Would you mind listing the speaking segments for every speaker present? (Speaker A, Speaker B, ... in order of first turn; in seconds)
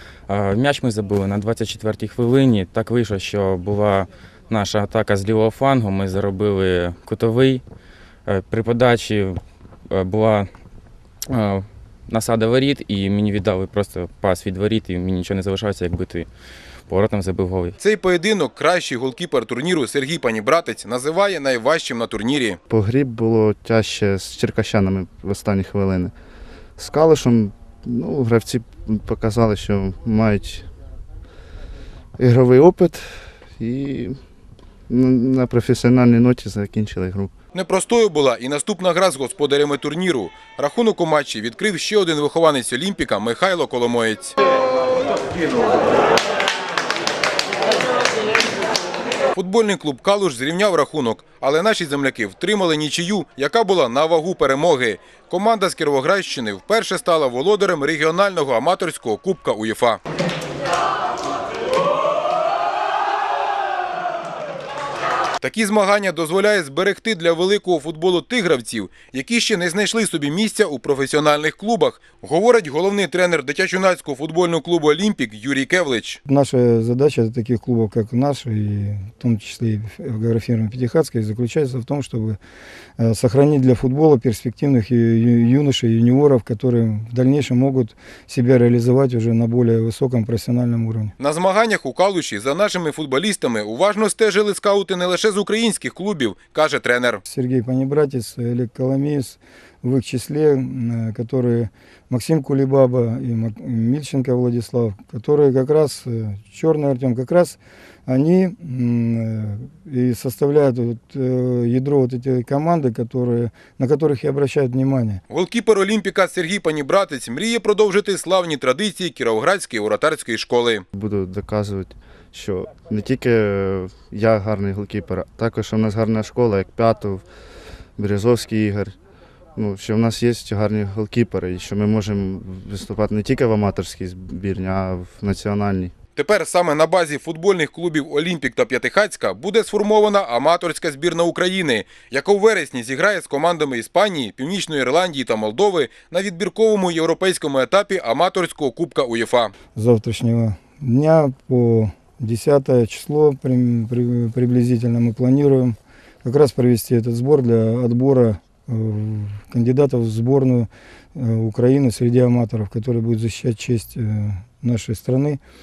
Speaker A: 0.3-7.6, 8.3-9.4, 9.9-10.5, 11.3-16.3, 16.9-17.8
Speaker B: 17.8-22.6, 37.5-44.3, 49.4-60.0, 65.4-76.2, 91.2-97.2, 115.3-120.8, 136.2-149.5
Speaker C: 22.7-26.1, 26.8-30.7, 32.2-34.2, 34.9-37.3, 120.9-127.2, 128.0-128.9, 129.6-135.9
Speaker D: 76.2-82.4, 83.0-91.1, 97.3-115.2, 149.7-165.4